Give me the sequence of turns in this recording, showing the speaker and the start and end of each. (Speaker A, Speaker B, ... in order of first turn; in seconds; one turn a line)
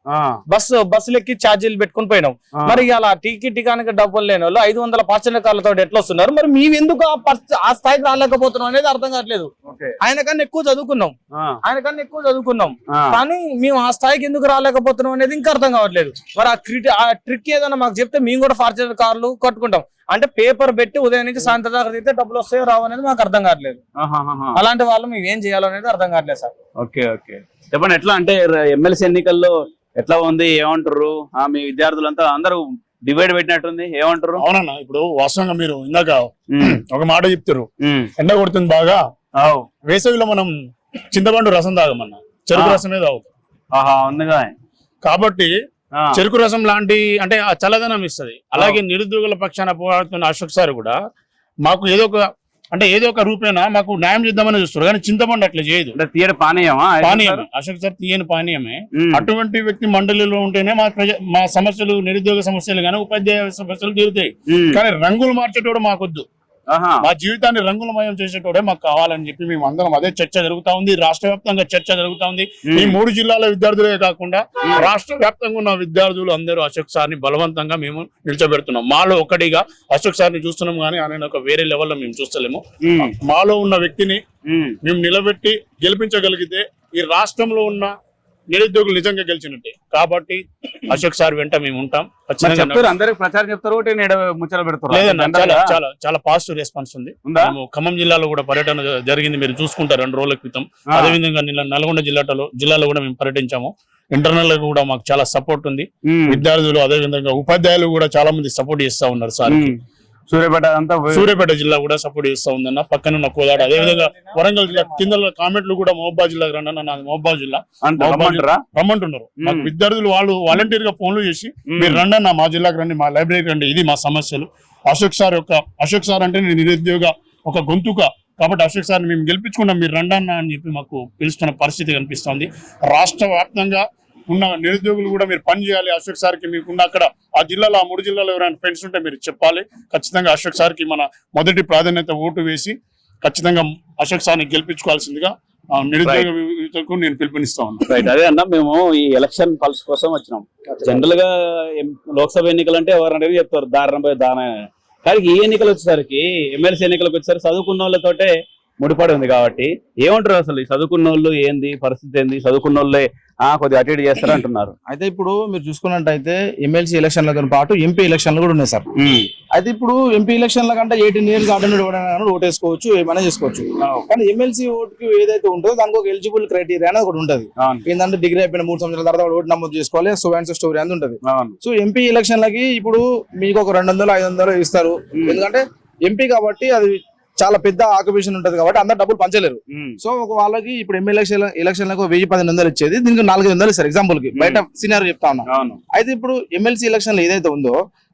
Speaker A: 0.1-0.4
Speaker B: 0.5-23.8
Speaker A: 2.5-2.9
Speaker A: 9.7-10.0
Speaker A: 12.9-13.2
Speaker A: 24.0-24.6
Speaker B: 24.6-26.5
Speaker A: 26.8-34.4
Speaker C: 34.4-39.0
Speaker A: 36.5-36.8
Speaker A: 37.8-38.1
Speaker A: 39.4-39.7
Speaker C: 39.9-40.5
Speaker C: 41.1-43.3
Speaker A: 42.5-42.8
Speaker A: 43.7-44.5
Speaker C: 45.0-45.5
Speaker C: 46.1-51.0
Speaker C: 51.6-56.0
Speaker A: 55.9-57.4
Speaker C: 57.0-66.3
Speaker A: 59.0-59.3
Speaker A: 64.5-64.8
Speaker A: 66.7-67.0
Speaker C: 67.0-82.6
Speaker A: 72.7-73.0
Speaker A: 82.8-83.1
Speaker C: 83.2-84.2
Speaker A: 84.5-84.8
Speaker C: 84.8-87.9
Speaker C: 88.5-93.0
Speaker A: 92.4-95.8
Speaker C: 94.9-109.7
Speaker A: 100.9-101.2
Speaker A: 106.1-106.5
Speaker A: 109.5-109.8
Speaker A: 110.3-111.3
Speaker C: 111.1-147.9
Speaker B: 113.5-115.2
Speaker A: 117.8-118.6
Speaker A: 119.4-119.7
Speaker A: 121.7-122.0
Speaker A: 146.0-146.3
Speaker A: 147.9-154.5
Speaker A: 155.1-164.7
Speaker D: 164.9-168.9
Speaker A: 169.0-169.3
Speaker D: 169.5-197.8
Speaker A: 181.2-181.6
Speaker A: 189.7-190.0
Speaker A: 194.3-194.6
Speaker A: 195.5-195.8